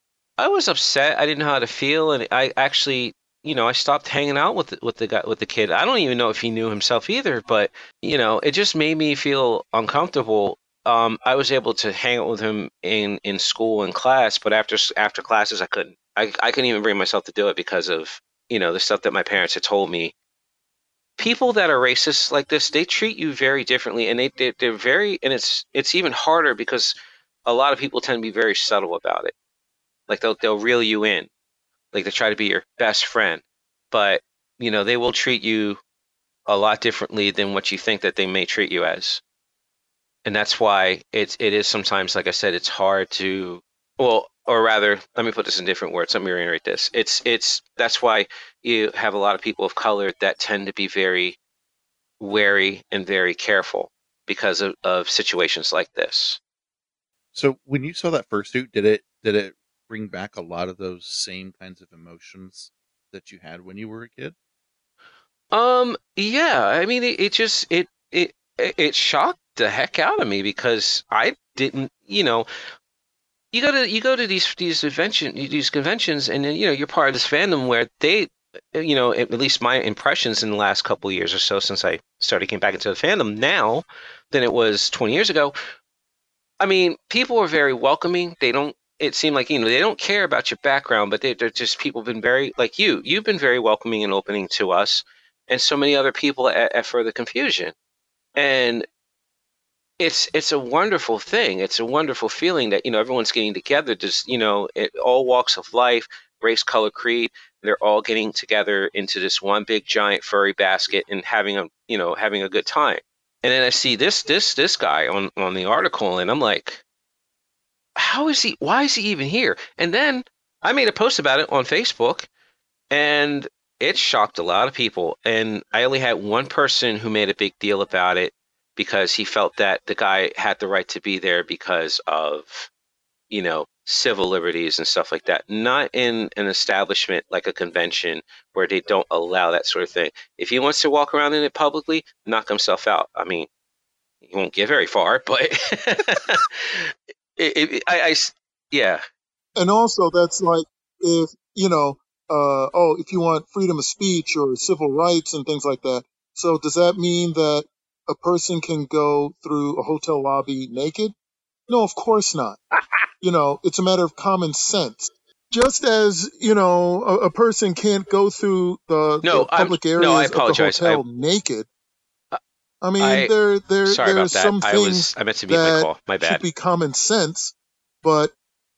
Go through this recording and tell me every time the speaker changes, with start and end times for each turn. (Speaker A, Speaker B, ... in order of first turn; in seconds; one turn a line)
Speaker A: 0.4-20.1
Speaker A: 21.2-26.9
Speaker A: 27.4-29.3
Speaker A: 30.1-31.3
Speaker A: 31.9-35.8
Speaker A: 36.5-39.2
Speaker A: 40.2-51.4
Speaker A: 52.2-56.4
Speaker B: 57.3-64.3
Speaker A: 65.5-72.5
Speaker A: 73.5-85.5
Speaker A: 86.6-97.7
Speaker A: 98.3-98.9
Speaker A: 100.0-116.8
Speaker A: 118.0-122.3
Speaker A: 122.9-132.7
Speaker A: 133.3-143.5
Speaker A: 144.2-149.0
Speaker C: 149.6-161.1
Speaker C: 161.7-162.6
Speaker C: 163.2-171.7
Speaker A: 169.2-171.0
Speaker C: 172.8-178.3
Speaker A: 173.0-173.3
Speaker A: 173.8-176.4